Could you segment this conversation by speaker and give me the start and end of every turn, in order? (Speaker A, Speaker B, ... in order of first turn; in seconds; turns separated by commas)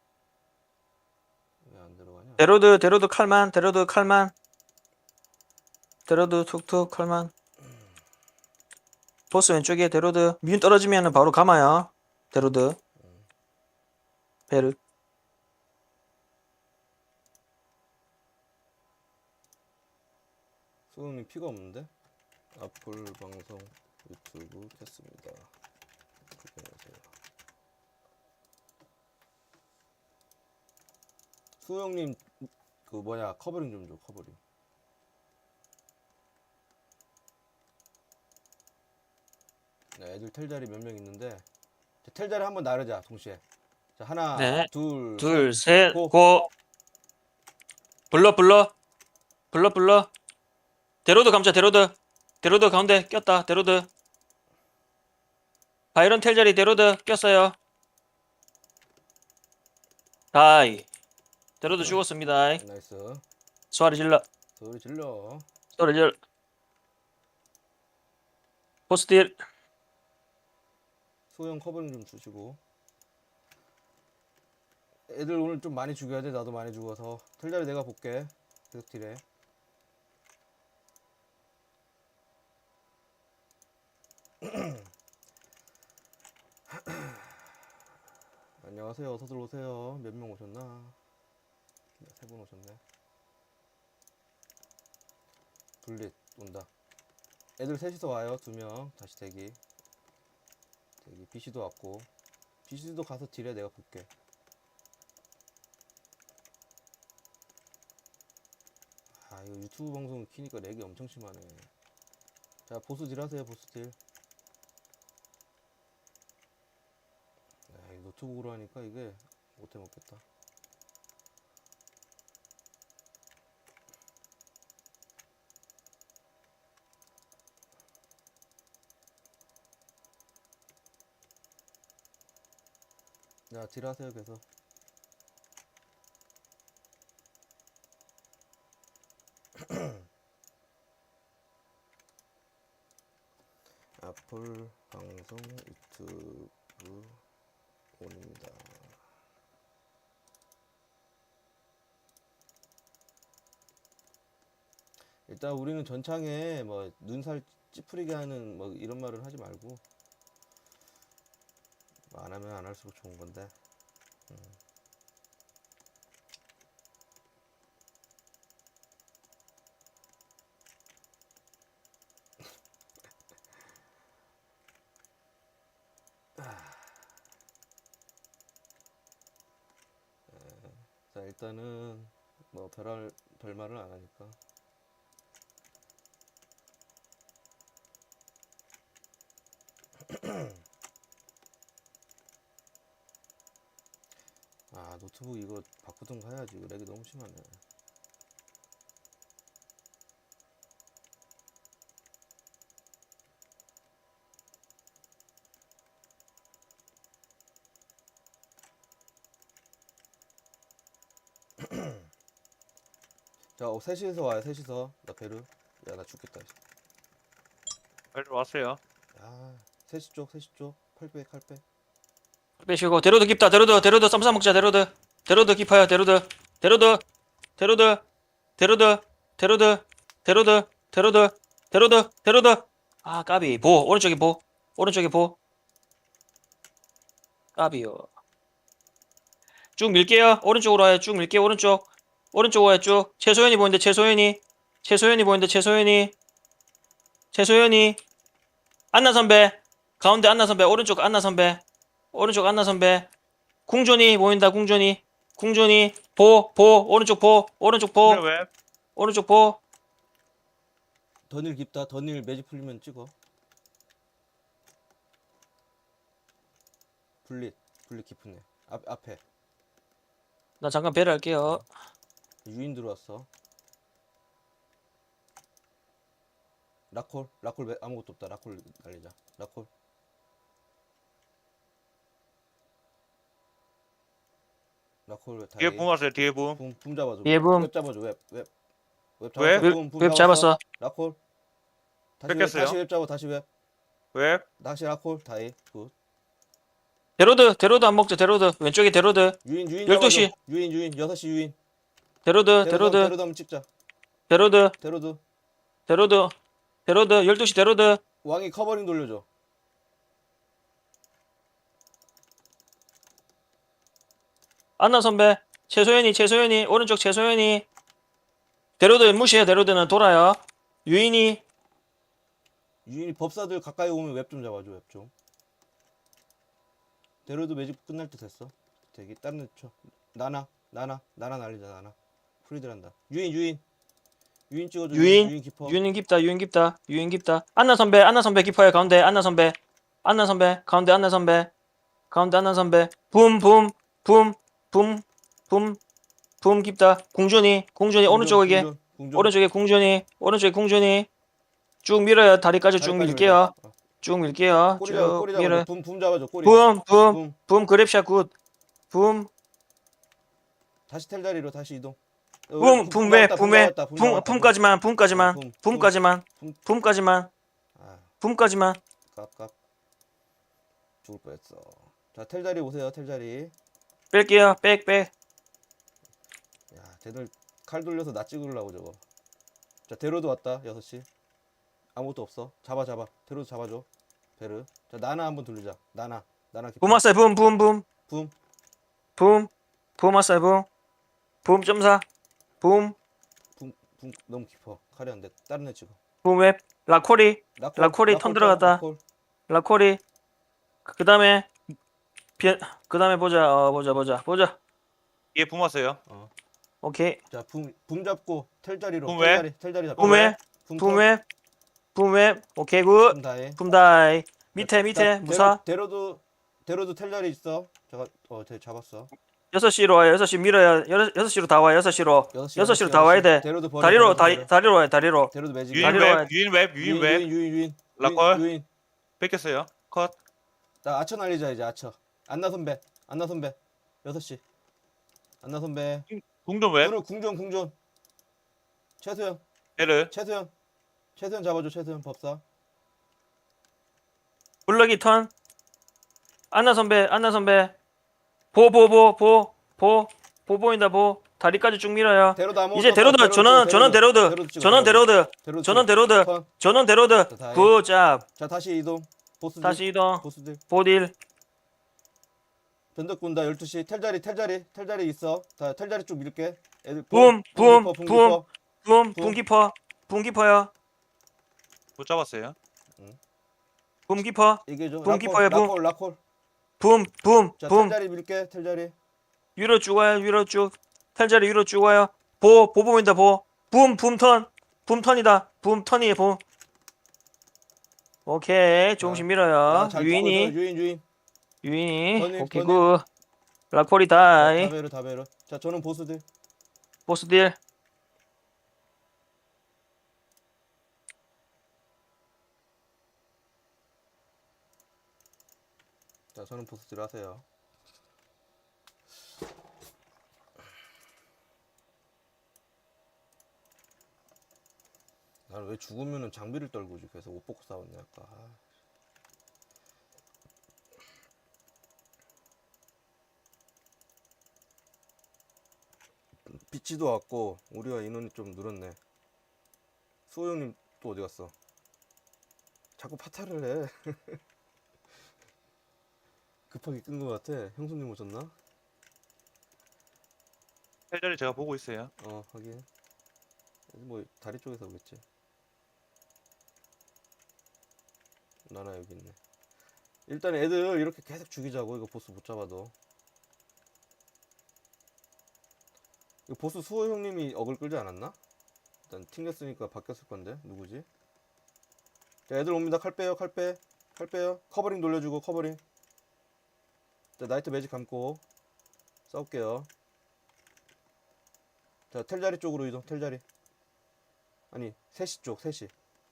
Speaker A: 1.6-2.5, Speaker B: 2.4-4.3, Speaker B: 6.1-7.3, Speaker B: 9.3-12.8, Speaker A: 13.0-13.3, Speaker B: 14.5-14.8, Speaker A: 20.9-21.9, Speaker A: 22.5-25.5, Speaker A: 26.4-27.1, Speaker A: 31.6-34.4, Speaker A: 39.9-41.4, Speaker A: 42.0-43.4, Speaker A: 44.0-46.2, Speaker B: 44.3-46.5, Speaker B: 48.1-48.7, Speaker B: 49.5-50.1, Speaker B: 51.0-53.9, Speaker B: 55.9-57.5, Speaker B: 60.3-60.9, Speaker B: 61.6-62.6, Speaker A: 61.7-63.2, Speaker B: 63.7-64.2, Speaker A: 64.6-65.5, Speaker B: 65.8-66.2, Speaker B: 68.9-69.4, Speaker A: 71.3-72.6, Speaker A: 75.1-79.2, Speaker A: 84.4-84.8, Speaker A: 86.7-87.4, Speaker A: 88.6-91.0, Speaker A: 92.0-92.8, Speaker A: 95.8-96.7, Speaker A: 97.6-99.6, Speaker A: 101.0-102.1, Speaker A: 102.7-104.1, Speaker A: 109.1-111.7, Speaker A: 112.7-114.0, Speaker A: 117.7-120.2, Speaker A: 133.5-134.4, Speaker A: 144.0-147.2, Speaker A: 148.0-149.0, Speaker A: 155.3-159.8, Speaker A: 162.1-163.5, Speaker A: 164.3-164.6, Speaker A: 176.4-176.7, Speaker A: 180.3-184.4, Speaker A: 194.7-197.6, Speaker A: 211.6-211.9, Speaker A: 213.6-216.5, Speaker C: 218.1-218.8, Speaker A: 219.1-221.6, Speaker B: 222.6-227.0, Speaker B: 227.6-228.0, Speaker B: 228.6-235.3, Speaker B: 237.6-238.1, Speaker B: 239.8-246.1, Speaker B: 247.3-248.0, Speaker B: 248.9-251.6, Speaker B: 252.1-253.1, Speaker B: 253.7-258.2, Speaker C: 258.0-258.5, Speaker B: 259.0-259.6, Speaker A: 261.3-263.1, Speaker A: 267.2-269.2, Speaker B: 270.6-271.7, Speaker A: 272.4-273.3, Speaker A: 276.9-279.7, Speaker A: 285.1-288.5, Speaker C: 285.6-286.6, Speaker B: 287.2-287.7, Speaker A: 289.2-291.2, Speaker C: 289.4-289.7, Speaker B: 289.6-290.6, Speaker A: 292.2-293.4, Speaker C: 292.3-292.8, Speaker C: 294.1-294.4, Speaker A: 294.6-295.9, Speaker B: 297.2-300.3, Speaker A: 299.4-301.5, Speaker B: 302.2-303.1, Speaker A: 302.6-303.7, Speaker B: 304.3-304.7, Speaker A: 304.8-305.2, Speaker B: 305.9-306.3, Speaker B: 306.9-308.0, Speaker A: 308.2-309.2, Speaker B: 314.8-317.6, Speaker B: 318.8-321.4, Speaker A: 322.9-325.1, Speaker A: 327.2-333.6, Speaker A: 334.5-335.8, Speaker B: 334.9-341.5, Speaker B: 342.1-345.8, Speaker B: 346.4-351.1, Speaker A: 348.0-349.4, Speaker B: 351.8-355.7, Speaker A: 352.8-353.7, Speaker A: 354.8-357.4, Speaker B: 356.4-358.3, Speaker B: 358.9-359.3, Speaker A: 360.9-362.0, Speaker A: 362.5-364.6, Speaker B: 362.6-367.3, Speaker A: 365.1-366.6, Speaker A: 367.8-368.1, Speaker B: 368.2-368.8, Speaker A: 369.1-369.5, Speaker A: 371.0-373.5, Speaker B: 374.1-375.1, Speaker A: 376.7-379.0, Speaker A: 379.9-381.1, Speaker A: 381.9-383.9, Speaker A: 384.4-387.0, Speaker B: 386.8-387.8, Speaker A: 388.1-388.3, Speaker B: 389.2-390.7, Speaker B: 391.4-392.0, Speaker B: 392.6-392.9, Speaker A: 393.6-396.0, Speaker B: 396.2-398.8, Speaker A: 397.6-399.0, Speaker B: 399.5-400.0, Speaker B: 400.9-401.5, Speaker B: 402.4-404.6, Speaker A: 403.7-404.0, Speaker C: 405.3-406.0, Speaker A: 406.1-406.3, Speaker B: 406.8-407.2, Speaker A: 407.3-411.1, Speaker C: 409.1-409.4, Speaker C: 410.0-410.4, Speaker B: 410.0-411.2, Speaker B: 411.9-415.6, Speaker A: 413.1-413.6, Speaker A: 414.6-419.1, Speaker B: 419.5-426.3, Speaker A: 422.3-424.5, Speaker A: 425.3-426.1, Speaker C: 425.7-427.3, Speaker A: 426.8-428.6, Speaker C: 428.0-428.4, Speaker C: 429.2-430.1, Speaker A: 430.8-434.4, Speaker A: 435.4-436.1, Speaker C: 436.1-436.9, Speaker A: 436.8-437.7, Speaker A: 439.0-439.4, Speaker C: 439.8-440.1, Speaker A: 440.1-440.5, Speaker A: 441.1-442.4, Speaker B: 444.7-445.3, Speaker B: 446.5-447.7, Speaker B: 448.5-458.2, Speaker A: 452.3-456.5, Speaker A: 457.3-457.7, Speaker A: 458.4-460.6, Speaker B: 459.6-461.1, Speaker A: 462.9-468.5, Speaker B: 467.1-470.7, Speaker A: 469.1-469.4, Speaker C: 472.0-472.5, Speaker B: 474.1-475.7, Speaker A: 474.6-476.2, Speaker B: 476.8-477.9, Speaker A: 477.6-478.9, Speaker B: 479.6-486.4, Speaker B: 488.2-490.5, Speaker A: 489.0-491.0, Speaker B: 491.6-493.0, Speaker A: 492.1-492.9, Speaker B: 493.7-494.7, Speaker A: 494.3-496.2, Speaker B: 497.1-497.6, Speaker A: 506.3-507.4, Speaker A: 515.5-518.6, Speaker A: 526.5-529.0, Speaker A: 530.3-531.5, Speaker A: 533.0-534.4, Speaker A: 536.7-538.5, Speaker C: 541.1-542.1, Speaker A: 542.2-542.9, Speaker A: 543.9-545.2, Speaker A: 548.6-549.4, Speaker A: 550.3-552.9, Speaker A: 556.5-558.4, Speaker A: 559.1-561.0, Speaker A: 562.5-565.8, Speaker A: 567.4-568.4, Speaker A: 569.3-569.9, Speaker A: 572.1-573.4, Speaker A: 574.7-575.9